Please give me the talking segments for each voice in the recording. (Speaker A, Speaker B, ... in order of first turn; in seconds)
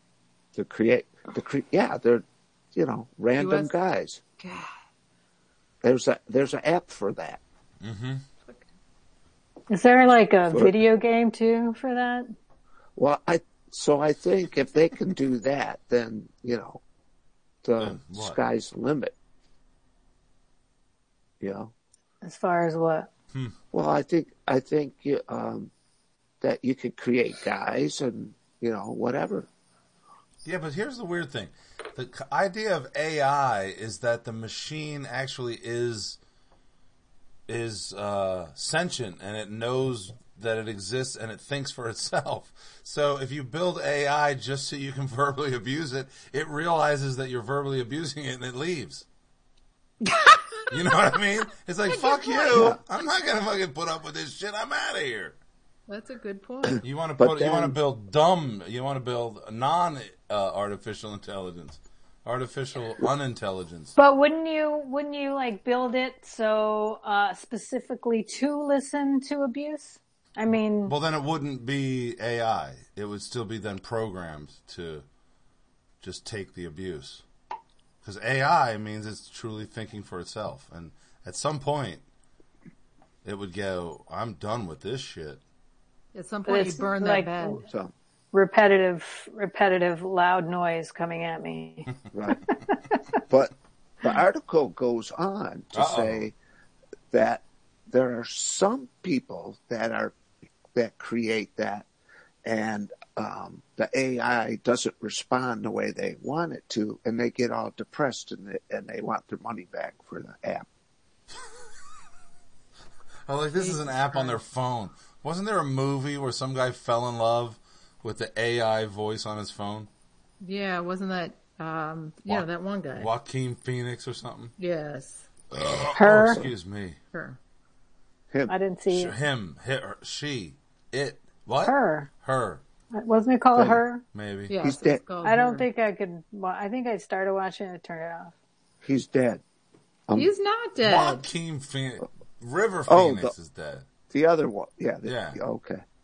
Speaker A: 0.5-4.2, 5.8-7.4, 10.5-10.8, 12.9-16.8, 17.6-19.1, 21.4-21.7, 23.7-25.7, 26.4-29.5, 52.5-52.8, 57.2-57.8, 87.7-87.9, 92.1-92.4, 93.3-96.3, 97.1-100.2, 100.7-101.9, 102.4-110.7, 133.5-133.8, 134.6-135.0, 138.8-139.4, 142.9-143.3, 144.1-145.8
Speaker B: 3.4-3.7, 4.4-4.7, 50.1-50.4, 51.9-52.6, 55.9-56.8, 86.1-87.6, 113.6-114.4, 120.4-123.1, 124.6-125.2, 127.1-127.4, 134.5-135.7, 140.1-141.2
Speaker C: 7.8-8.2, 17.8-18.4, 30.4-36.2, 37.5-49.0, 50.7-55.4, 56.8-63.9, 70.8-75.0, 76.0-77.2, 78.0-82.0, 83.2-85.4, 95.7-96.3, 113.3-119.9, 122.3-124.5, 125.5-127.0, 128.9-132.6, 134.1-134.5, 140.8-143.9, 145.0-145.4
Speaker D: 9.7-12.3, 22.2-23.1, 64.0-71.0, 86.5-87.6, 88.3-92.5, 125.9-126.4, 128.5-129.1, 131.6-132.1, 132.9-134.0, 135.2-138.3